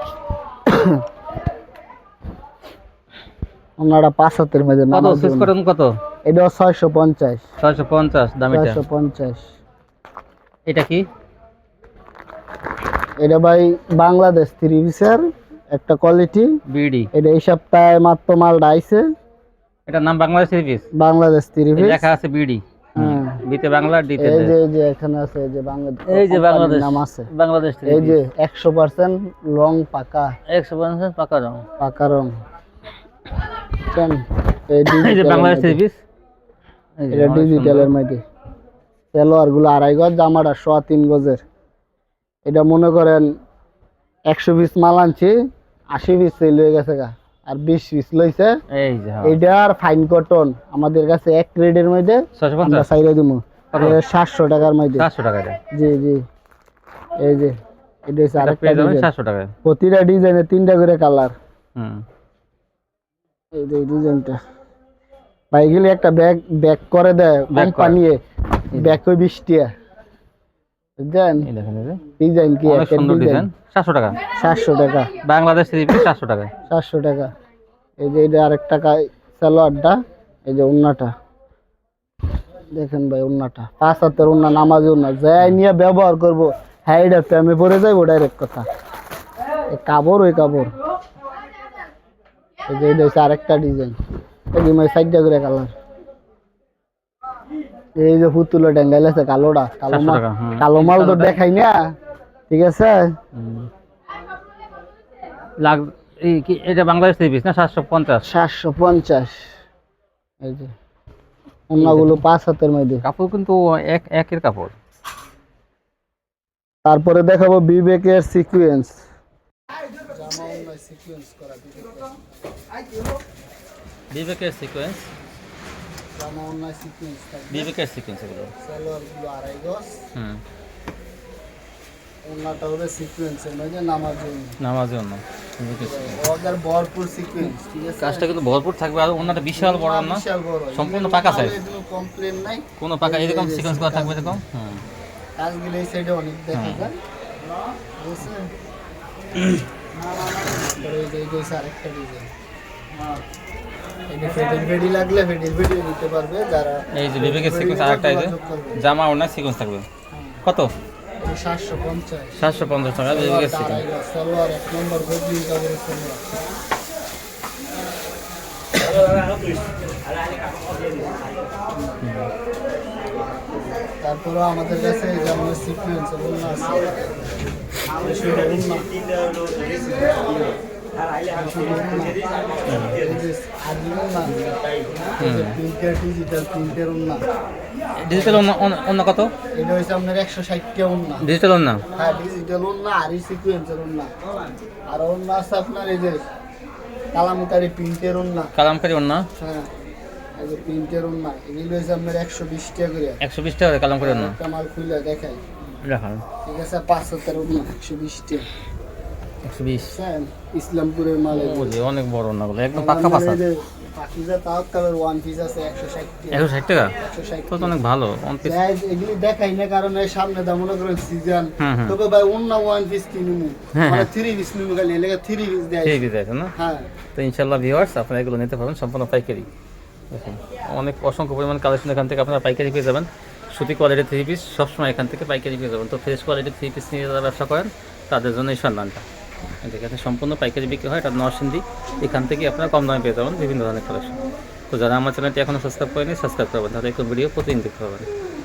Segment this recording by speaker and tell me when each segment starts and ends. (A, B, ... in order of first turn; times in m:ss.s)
0:00.6-0:01.0 A
0:03.8-0:05.5 A
0:04.9-0:05.9 B
0:06.2-0:07.4 A
0:07.6-0:08.8 B
0:08.5-0:09.4 A
0:10.7-0:11.0 B
0:13.2-0:16.5 A
0:16.7-0:17.1 B
0:17.1-0:19.0 A
0:19.9-0:20.9 B
0:20.9-0:22.1 A
0:21.8-0:24.5 B
0:23.0-0:23.4 A
0:24.2-0:27.3 A
0:26.1-0:28.2 B
0:27.8-0:30.3 A
0:30.5-0:31.6 B
0:31.8-0:32.3 A
0:33.8-0:35.8 A
0:34.9-0:36.0 B
0:37.0-0:37.9 B
0:37.1-0:38.2 A
0:39.1-0:41.4 A
0:42.4-0:43.3 A
0:44.3-0:45.3 A
0:45.9-0:48.5 A
0:48.7-0:49.4 B
0:49.2-0:55.0 A
0:52.4-0:52.9 B
0:53.7-0:54.0 B
0:55.0-0:55.6 B
0:55.7-0:56.2 A
0:57.2-0:57.5 A
0:58.1-0:59.1 A
0:58.4-0:59.5 B
0:59.6-1:01.3 A
1:01.8-1:02.0 B
1:03.5-1:04.4 A
1:05.5-1:08.2 A
1:07.5-1:08.0 B
1:08.7-1:09.0 B
1:08.7-1:09.7 A
1:11.0-1:11.5 A
1:11.4-1:12.0 B
1:12.2-1:13.5 A
1:12.6-1:14.2 B
1:14.4-1:15.1 A
1:15.2-1:16.5 B
1:16.7-1:17.3 A
1:18.0-1:21.1 A
1:22.7-1:28.6 A
1:29.7-1:30.7 A
1:32.7-1:34.0 A
1:34.5-1:35.7 A
1:38.0-1:41.9 A
1:39.9-1:41.4 B
1:42.5-1:43.2 A
1:43.3-1:43.7 B
1:45.6-1:48.2 B
1:48.2-1:49.5 A
1:50.4-1:50.7 A
1:51.7-1:53.0 A
1:51.8-1:52.2 B
1:53.0-1:54.7 B
1:56.8-1:59.0 A
2:00.1-2:02.1 A
2:04.1-2:05.1 B
2:06.1-2:07.7 A
2:07.5-2:08.5 B
2:08.6-2:10.0 A
2:10.2-2:10.4 B
2:12.2-2:14.6 A
2:14.6-2:16.2 B
2:15.7-2:18.4 A
2:18.0-2:21.6 B
2:19.2-2:24.4 A
2:22.8-2:24.8 B
2:25.4-2:27.0 A
2:26.5-2:26.9 B
2:28.0-2:28.5 A
2:30.3-2:32.3 A
2:34.1-2:38.8 A
2:36.9-2:39.8 B
2:40.1-2:40.4 A
2:40.4-2:40.7 B
2:41.2-2:46.3 A
2:42.4-2:43.8 B
2:51.7-2:52.0 A
2:52.0-2:52.3 B
2:54.0-2:57.2 A
2:57.8-2:58.8 A
2:59.5-3:00.5 A
3:01.3-3:02.2 A
3:02.7-3:03.0 B
3:02.8-3:04.6 A
3:05.2-3:07.2 A
3:05.2-3:05.6 B
3:08.0-3:09.3 B
3:08.1-3:08.5 A
3:09.5-3:11.2 A
3:11.2-3:11.8 B
3:11.9-3:14.1 A
3:14.9-3:16.2 A
3:17.1-3:18.5 A
3:18.6-3:19.3 B
3:19.3-3:19.7 A
3:20.4-3:23.2 A
3:23.2-3:24.4 B
3:24.0-3:25.4 A
3:25.8-3:26.2 B
3:26.4-3:28.5 A
3:29.4-3:30.0 B
3:29.9-3:31.8 A
3:31.3-3:33.4 B
3:32.7-3:36.4 A
3:36.3-3:36.9 B
3:37.0-3:37.7 A
3:37.5-3:38.6 B
3:38.4-3:46.0 A
3:41.6-3:42.0 B
3:43.7-3:44.1 B
3:45.8-3:46.5 B
3:46.6-3:46.9 A
3:47.1-3:49.5 B
3:50.1-3:59.0 B
3:59.6-4:08.1 B